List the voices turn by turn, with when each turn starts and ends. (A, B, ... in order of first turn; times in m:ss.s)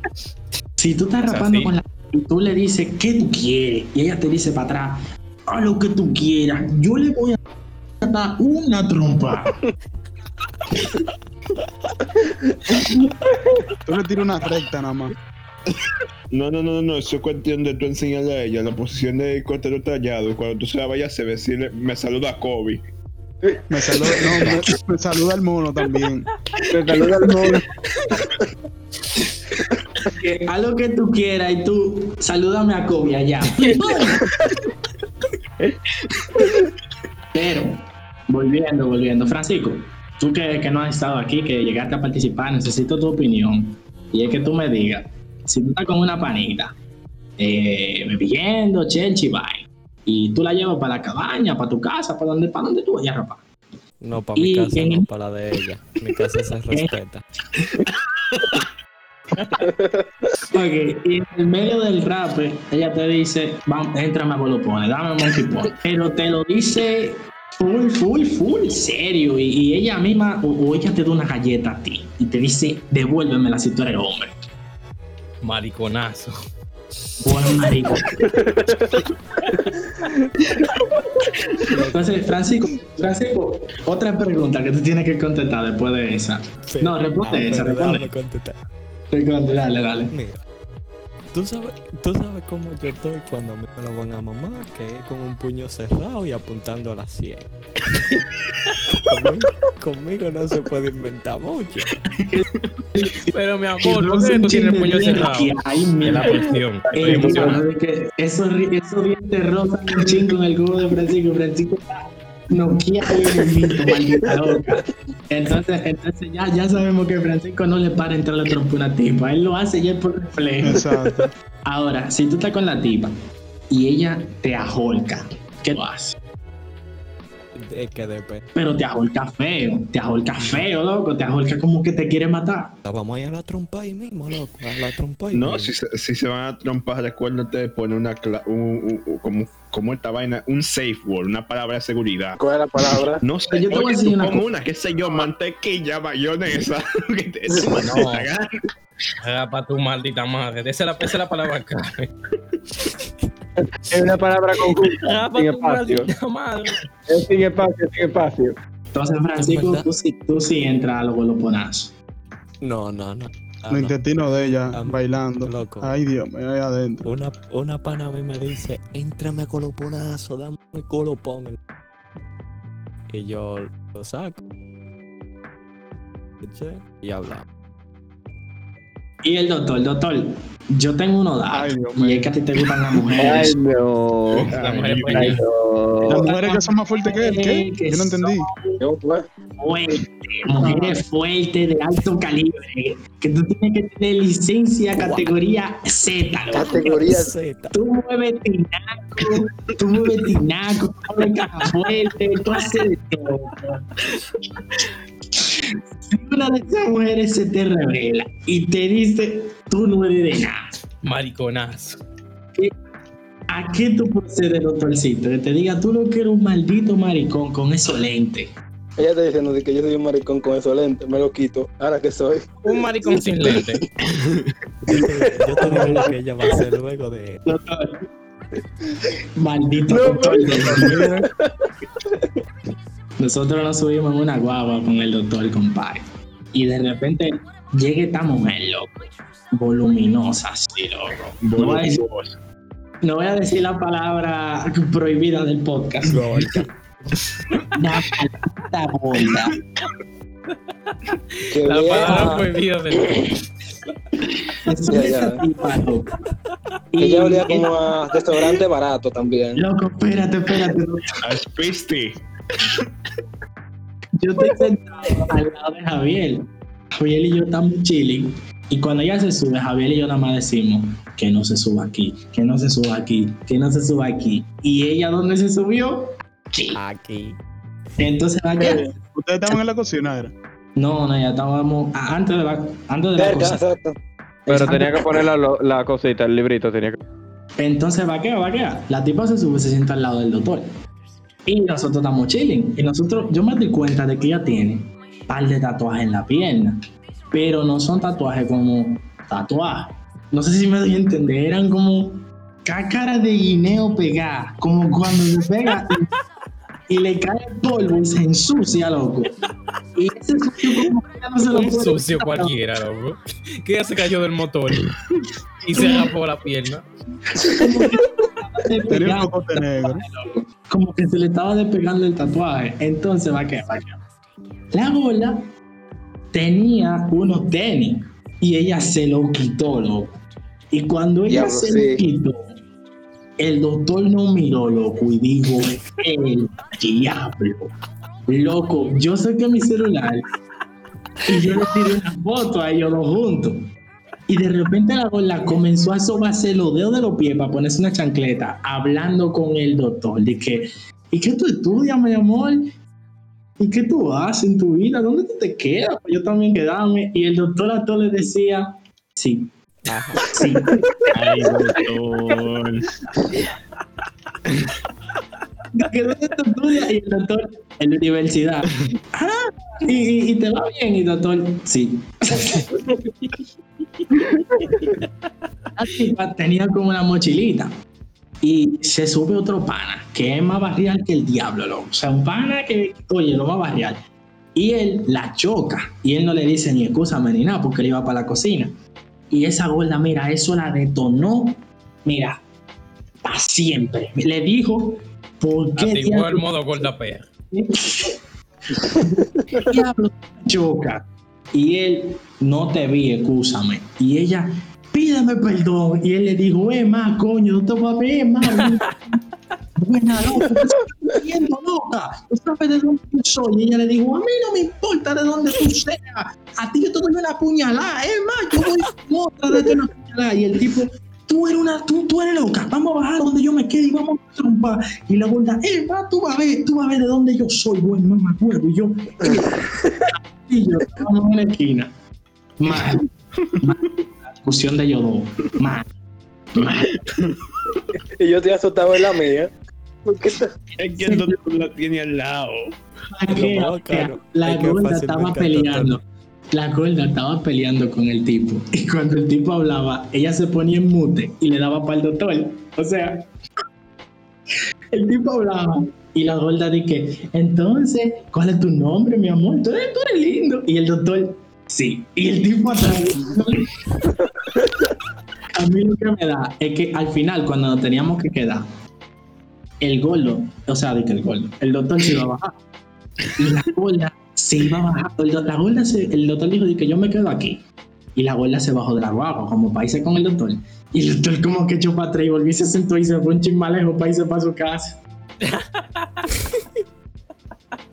0:00.8-0:07.4 A
0:01.2-0:01.7 B
0:08.0-0:09.6 A
0:13.8-0:15.1 C
0:16.3-0:22.8 D
0:23.7-0:26.3 C
0:26.7-0:27.6 E
0:27.2-0:27.6 C
0:30.0-0:34.2 A
0:33.7-0:34.0 E
0:37.3-0:46.8 A
0:47.4-0:53.4 A
0:54.0-0:57.2 F
0:54.4-0:55.1 A
0:56.7-0:57.0 A
0:59.4-0:59.7 A
1:00.5-1:14.4 A
1:15.4-1:16.3 B
1:17.2-1:18.2 A
1:21.7-1:22.2 F
1:21.7-1:28.1 A
1:26.7-1:28.6 F
1:29.1-1:30.1 A
1:30.1-1:30.4 F
1:31.3-1:38.1 F
1:38.9-1:41.9 F
1:42.2-2:00.8 A
1:43.3-1:47.6 B
2:00.6-2:01.3 C
2:01.6-2:03.1 A
2:03.7-2:06.2 A
2:07.6-2:08.4 F
2:08.5-2:12.8 A
2:12.8-2:15.7 F
2:15.3-2:28.4 D
2:22.4-2:23.2 G
2:23.5-2:24.4 A
2:27.8-2:28.3 B
2:29.2-2:32.1 B
2:32.8-2:33.1 F
2:33.9-2:36.1 E
2:34.7-2:36.8 B
2:37.1-2:38.6 E
2:38.9-2:41.9 A
2:39.4-2:39.9 F
2:42.6-2:45.9 F
2:43.7-2:47.0 C
2:47.0-2:51.6 F
2:53.1-2:54.4 F
2:56.4-2:57.4 F
2:59.2-3:03.6 A
3:01.5-3:02.3 C
3:03.2-3:06.2 E
3:04.5-3:05.4 B
3:04.5-3:05.4 D
3:06.1-3:08.8 A
3:06.1-3:08.5 C
3:08.8-3:09.2 G
3:09.6-3:16.9 A
3:10.6-3:11.0 C
3:14.9-3:15.3 F
3:16.5-3:17.3 G
3:16.6-3:17.7 F
3:17.7-3:23.8 A
3:25.4-3:30.7 A
3:31.0-3:32.0 B
3:33.5-3:38.5 A
3:39.0-3:42.6 G
3:42.6-3:43.8 B
3:44.8-3:47.4 F
3:44.9-3:45.6 G
3:45.6-3:46.6 A
3:47.4-3:48.0 A
3:49.1-3:51.1 A
3:49.9-3:50.3 G
3:50.6-3:51.2 C
3:51.0-3:51.2 G
3:53.2-4:02.0 A
4:01.4-4:02.4 D
4:03.0-4:06.6 A
4:06.0-4:06.8 F
4:07.3-4:07.6 F
4:07.7-4:09.6 A
4:11.5-4:12.5 G
4:11.6-4:13.4 B
4:12.0-4:12.4 A
4:14.6-4:16.1 A
4:14.9-4:15.4 G
4:16.9-4:18.3 A
4:17.0-4:19.6 G
4:19.5-4:21.1 A
4:21.2-4:22.2 D
4:24.2-4:36.8 A
4:36.8-4:37.4 F
4:38.0-4:38.9 A
4:39.1-4:40.3 C
4:40.8-4:43.6 A
4:43.2-4:43.9 G
4:44.5-4:45.3 A
4:44.5-4:47.0 E
4:47.6-4:50.7 A
4:51.4-4:56.8 A
4:57.3-5:06.1 A
5:06.9-5:09.3 A
5:09.9-5:12.6 A
5:11.5-5:14.9 B
5:15.6-5:16.8 B
5:15.7-5:16.1 A
5:17.3-5:24.0 A
5:18.9-5:20.0 C
5:24.7-5:25.5 A
5:26.3-5:30.2 A
5:30.7-5:32.5 A
5:31.3-5:32.0 G
5:33.4-5:37.7 A
5:38.3-5:40.3 A
5:41.2-5:43.6 A
5:44.3-5:52.7 A
5:53.6-5:59.5 A
5:59.9-6:00.3 F
6:00.2-6:00.9 A
6:01.1-6:02.8 D
6:05.7-6:12.7 A
6:15.8-6:17.7 A
6:18.4-6:24.0 A
6:24.5-6:28.8 A
6:29.3-6:32.4 A
6:33.2-6:36.9 A
6:35.8-6:37.3 B
6:37.5-6:38.2 A
6:38.8-6:49.2 A
6:49.8-7:11.9 A
7:12.6-7:13.1 A
7:13.6-7:15.9 A
7:16.5-7:16.9 A
7:18.2-7:19.5 G
7:20.0-7:20.5 G
7:20.8-7:22.7 D
7:21.0-7:21.3 A
7:23.1-7:26.0 A
7:23.3-7:26.0 F
7:26.5-7:33.3 A
7:34.9-7:43.7 A
7:45.5-7:48.7 A
7:49.8-7:52.6 A
7:53.4-7:57.6 A
7:58.2-8:05.0 A